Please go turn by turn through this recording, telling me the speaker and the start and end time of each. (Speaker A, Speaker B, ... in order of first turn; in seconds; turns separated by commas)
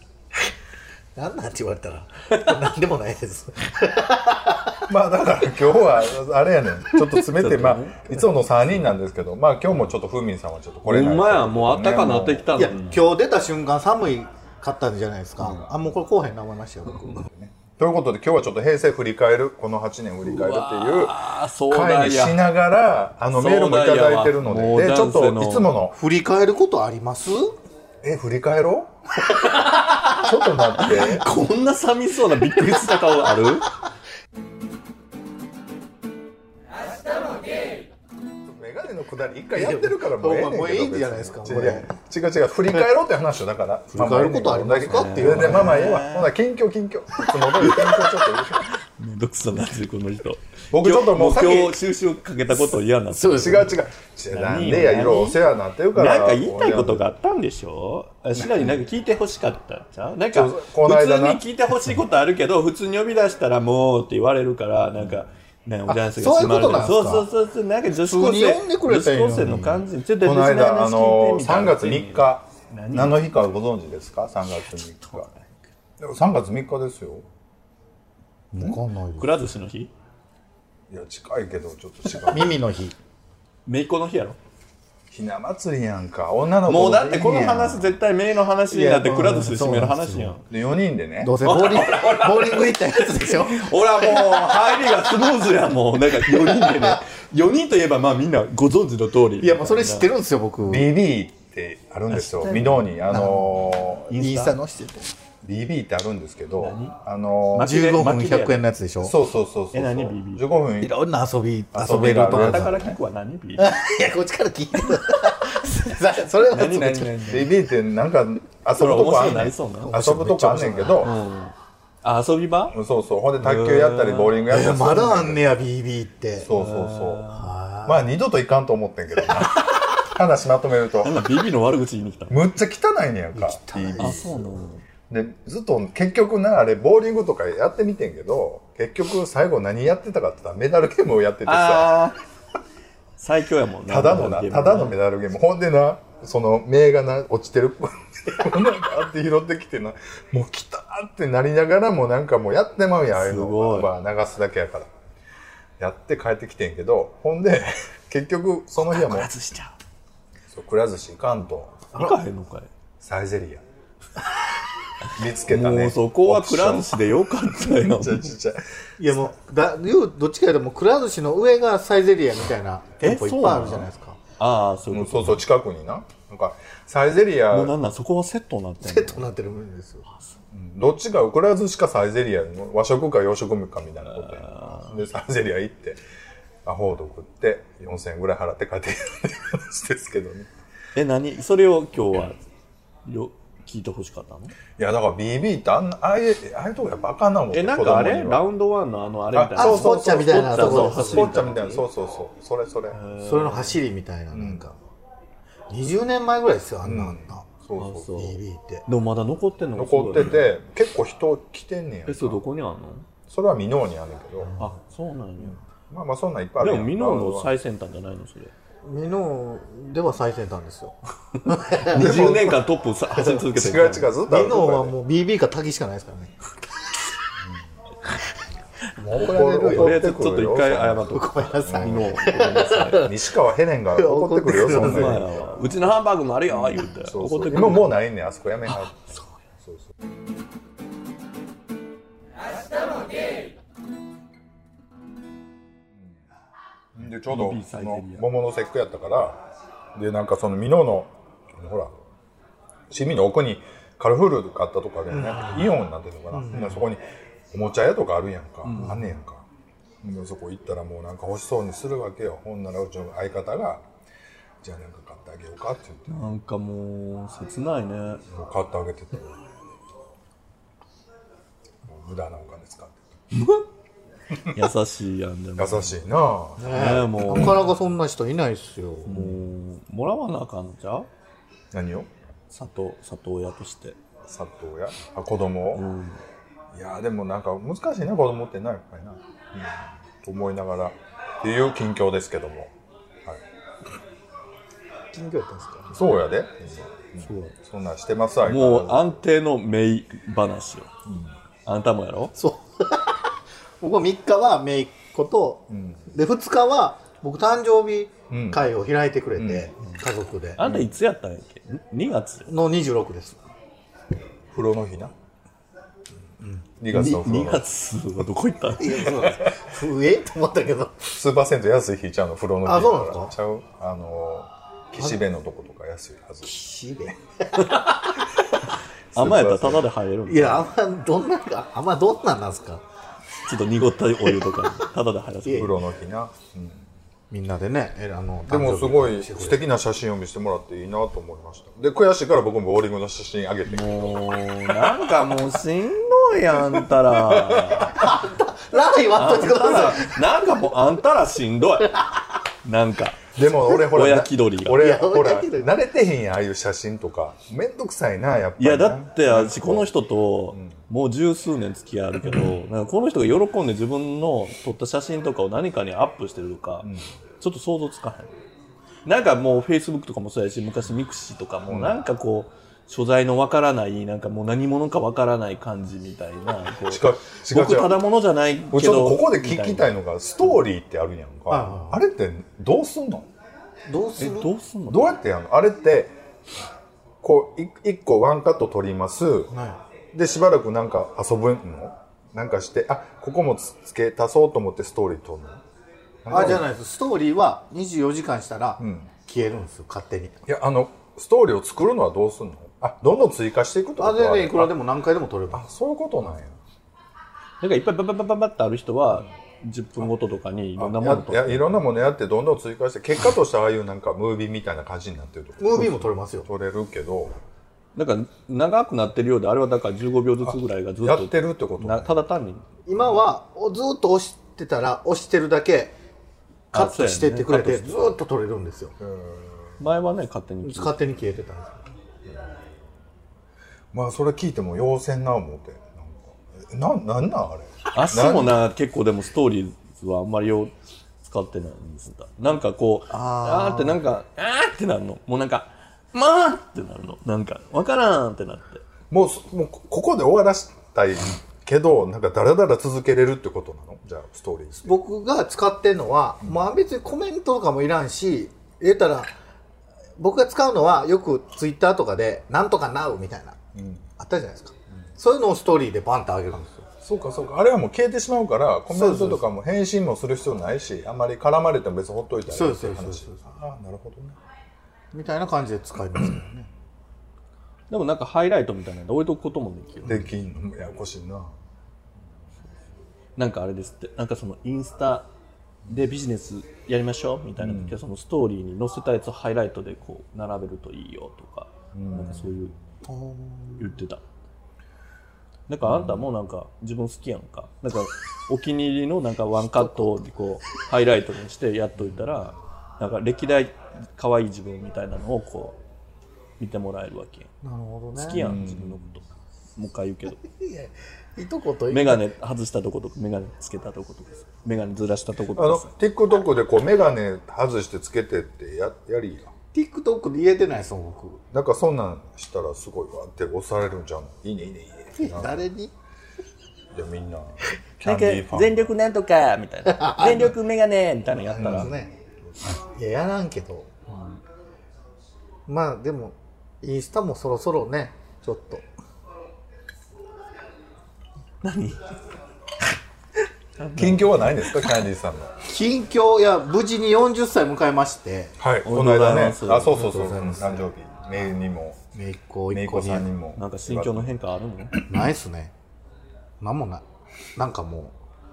Speaker A: 1.1-4.8, Speaker B: 4.9-12.5, Speaker C: 6.9-8.3, Speaker C: 10.8-13.1, Speaker A: 12.5-17.3, Speaker B: 17.1-25.9, Speaker C: 20.2-22.4, Speaker C: 23.3-25.7, Speaker A: 25.9-27.6, Speaker B: 28.0-28.9, Speaker C: 29.2-30.3, Speaker B: 30.1-31.2, Speaker C: 30.8-33.7, Speaker B: 38.4-48.7, Speaker A: 39.5-41.9, Speaker A: 43.9-45.8, Speaker C: 44.9-46.3, Speaker C: 47.5-73.3, Speaker B: 50.7-51.8, Speaker A: 53.1-53.7, Speaker B: 53.2-57.1, Speaker B: 58.4-58.8, Speaker B: 60.3-61.4, Speaker B: 65.0-65.2, Speaker A: 65.9-67.3, Speaker A: 68.0-69.8, Speaker B: 70.2-75.3, Speaker C: 75.0-75.5, Speaker B: 76.0-77.2, Speaker A: 78.5-79.3, Speaker C: 78.6-79.9, Speaker B: 80.9-82.6, Speaker A: 82.3-82.9, Speaker C: 83.7-84.4, Speaker B: 85.1-88.0, Speaker C: 86.7-90.4, Speaker A: 88.7-90.4, Speaker B: 90.5-91.4, Speaker A: 91.2-95.3, Speaker C: 91.4-100.1, Speaker A: 96.3-97.0, Speaker A: 99.4-100.9, Speaker B: 100.7-104.1, Speaker C: 102.1-103.2, Speaker A: 103.1-105.1, Speaker C: 104.1-104.6, Speaker B: 105.4-107.7, Speaker C: 106.6-107.0, Speaker C: 107.5-108.6, Speaker A: 107.6-109.1, Speaker B: 109.0-111.0, Speaker C: 109.7-110.4, Speaker A: 110.8-112.8, Speaker B: 111.7-113.0, Speaker C: 112.2-113.8, Speaker A: 113.6-117.3, Speaker C: 116.5-117.5, Speaker B: 117.2-121.2, Speaker C: 118.7-120.0, Speaker A: 119.8-121.0, Speaker C: 121.0-122.8, Speaker B: 122.7-125.4, Speaker C: 123.4-124.4, Speaker A: 124.5-126.5, Speaker B: 126.4-127.2, Speaker C: 126.5-127.5, Speaker A: 127.3-128.1, Speaker B: 127.9-131.2, Speaker C: 131.0-132.4, Speaker B: 132.3-134.5, Speaker A: 133.3-134.3, Speaker C: 134.0-134.8, Speaker B: 135.1-142.1, Speaker C: 141.4-142.2, Speaker C: 143.2-145.0, Speaker B: 143.9-154.9, Speaker C: 153.1-153.9, Speaker B: 155.8-159.3, Speaker C: 158.8-159.7, Speaker B: 160.5-161.9, Speaker C: 161.9-162.7, Speaker B: 163.0-163.6, Speaker B: 165.1-168.6, Speaker C: 165.5-168.3, Speaker A: 169.0-174.2, Speaker C: 173.0-175.4, Speaker B: 174.9-177.8, Speaker C: 177.5-179.2, Speaker A: 178.8-180.0, Speaker C: 180.1-180.3, Speaker B: 180.5-186.0, Speaker C: 184.1-185.0, Speaker B: 186.6-190.5, Speaker C: 190.9-192.4, Speaker C: 193.1-194.5, Speaker B: 194.8-198.4, Speaker C: 197.5-201.8, Speaker B: 199.3-203.0, Speaker A: 199.6-201.5, Speaker C: 202.9-203.8, Speaker A: 203.2-204.8, Speaker B: 204.3-204.7, Speaker A: 205.7-207.5, Speaker B: 206.8-208.2, Speaker C: 207.8-210.5, Speaker A: 208.1-208.8, Speaker B: 209.8-212.4, Speaker C: 212.1-213.1, Speaker B: 213.3-214.5, Speaker A: 214.4-214.7, Speaker C: 214.6-215.6, Speaker B: 215.9-217.5, Speaker C: 216.6-218.5, Speaker A: 218.8-222.2, Speaker C: 221.8-224.1, Speaker B: 221.9-222.6, Speaker B: 223.3-225.0, Speaker A: 224.3-226.3, Speaker A: 229.0-230.0, Speaker B: 229.1-231.1, Speaker C: 229.6-233.1, Speaker A: 231.1-233.1, Speaker B: 231.6-232.1, Speaker B: 233.0-235.5, Speaker A: 233.9-235.4, Speaker C: 234.6-237.9, Speaker B: 236.5-239.9, Speaker C: 238.7-239.3, Speaker B: 246.9-249.4, Speaker C: 247.3-248.2, Speaker B: 249.9-252.0, Speaker B: 252.9-259.5, Speaker A: 255.1-255.7, Speaker A: 256.3-256.8, Speaker C: 258.6-259.1, Speaker B: 260.0-263.8, Speaker B: 264.6-266.2, Speaker C: 266.1-268.2, Speaker B: 268.3-269.4, Speaker B: 271.9-273.2, Speaker C: 273.3-273.6, Speaker C: 274.4-276.1, Speaker B: 275.6-277.0, Speaker A: 276.6-279.3, Speaker C: 276.6-277.6, Speaker C: 279.1-281.1, Speaker B: 281.7-282.1, Speaker C: 282.5-284.0, Speaker B: 284.2-285.9, Speaker C: 285.8-286.2, Speaker B: 286.7-292.7, Speaker A: 295.1-296.1, Speaker B: 295.9-299.1, Speaker C: 297.2-297.5, Speaker C: 298.5-300.9, Speaker C: 301.6-302.3, Speaker A: 302.3-303.3, Speaker A: 303.8-310.6, Speaker B: 305.7-306.0, Speaker B: 308.3-308.6, Speaker B: 309.4-309.7, Speaker C: 310.6-312.5, Speaker B: 310.6-310.9, Speaker A: 312.5-313.4, Speaker B: 314.5-315.1, Speaker B: 316.8-317.6, Speaker C: 316.9-319.3, Speaker A: 318.8-321.1, Speaker B: 321.1-326.6, Speaker A: 322.6-323.3, Speaker A: 326.4-327.8, Speaker C: 327.6-328.3, Speaker B: 329.1-329.8, Speaker C: 329.1-330.7, Speaker A: 330.3-332.8, Speaker C: 333.4-335.8, Speaker A: 335.4-335.7, Speaker B: 335.5-336.9, Speaker A: 337.3-339.6, Speaker B: 338.5-345.5, Speaker C: 343.7-348.1, Speaker B: 346.6-347.9, Speaker A: 347.9-350.1, Speaker C: 349.1-352.0, Speaker C: 352.6-354.9, Speaker B: 353.3-359.9, Speaker A: 354.8-355.8, Speaker C: 358.6-366.9, Speaker B: 360.5-360.8, Speaker B: 366.8-367.1, Speaker C: 367.4-368.4, Speaker C: 369.0-379.9, Speaker B: 371.6-372.0, Speaker B: 376.9-378.0, Speaker B: 378.7-383.3, Speaker A: 381.5-382.0, Speaker A: 383.9-384.5, Speaker C: 384.2-385.1, Speaker B: 384.9-386.1, Speaker B: 387.2-389.5, Speaker A: 389.5-389.8, Speaker B: 390.1-395.6, Speaker B: 396.2-396.7, Speaker A: 396.3-400.4, Speaker B: 398.8-399.1, Speaker B: 400.5-404.7, Speaker A: 404.0-405.6, Speaker B: 405.5-406.6, Speaker C: 407.6-411.8, Speaker B: 410.8-417.4, Speaker A: 415.6-416.5, Speaker C: 418.0-422.7, Speaker B: 420.4-422.2, Speaker A: 422.9-426.0, Speaker C: 426.7-428.1, Speaker A: 426.7-429.0, Speaker B: 429.0-429.8, Speaker C: 429.8-431.0, Speaker A: 430.6-431.9, Speaker B: 432.3-432.8, Speaker B: 433.9-438.6, Speaker C: 437.9-440.7, Speaker C: 441.2-448.8, Speaker A: 443.1-444.0, Speaker B: 449.1-455.0, Speaker A: 454.8-459.3, Speaker A: 460.2-463.6, Speaker B: 463.8-464.1, Speaker A: 464.2-466.9, Speaker B: 467.0-474.4, Speaker A: 468.9-469.4, Speaker A: 472.5-473.5, Speaker A: 475.1-476.7, Speaker C: 477.9-480.3, Speaker A: 480.0-480.3, Speaker B: 480.0-481.5, Speaker C: 483.4-485.3, Speaker C: 485.9-492.8, Speaker B: 487.6-488.0, Speaker B: 491.9-492.6, Speaker A: 493.0-493.9, Speaker C: 493.8-494.2, Speaker C: 495.7-505.8, Speaker B: 495.8-496.3, Speaker B: 502.0-502.4, Speaker C: 506.6-507.5, Speaker A: 507.6-508.4, Speaker C: 508.1-509.2, Speaker B: 508.4-509.0, Speaker C: 509.8-510.4, Speaker A: 510.4-512.2, Speaker C: 511.9-515.9, Speaker B: 515.5-519.5, Speaker A: 519.7-521.4, Speaker B: 521.5-525.7, Speaker A: 525.2-525.9, Speaker B: 526.9-528.9, Speaker C: 528.0-531.9, Speaker A: 529.9-530.5, Speaker A: 531.5-532.1, Speaker B: 531.6-531.9, Speaker A: 532.7-533.9, Speaker C: 534.1-534.4, Speaker A: 535.7-538.9, Speaker C: 541.6-542.1, Speaker C: 543.8-545.0, Speaker B: 544.0-545.6, Speaker A: 545.6-548.5, Speaker B: 548.6-552.0, Speaker C: 548.8-550.1, Speaker A: 549.9-550.9, Speaker A: 552.1-553.3, Speaker B: 552.7-554.3, Speaker C: 553.6-555.0, Speaker A: 555.1-555.7, Speaker A: 556.6-557.0, Speaker A: 557.5-558.1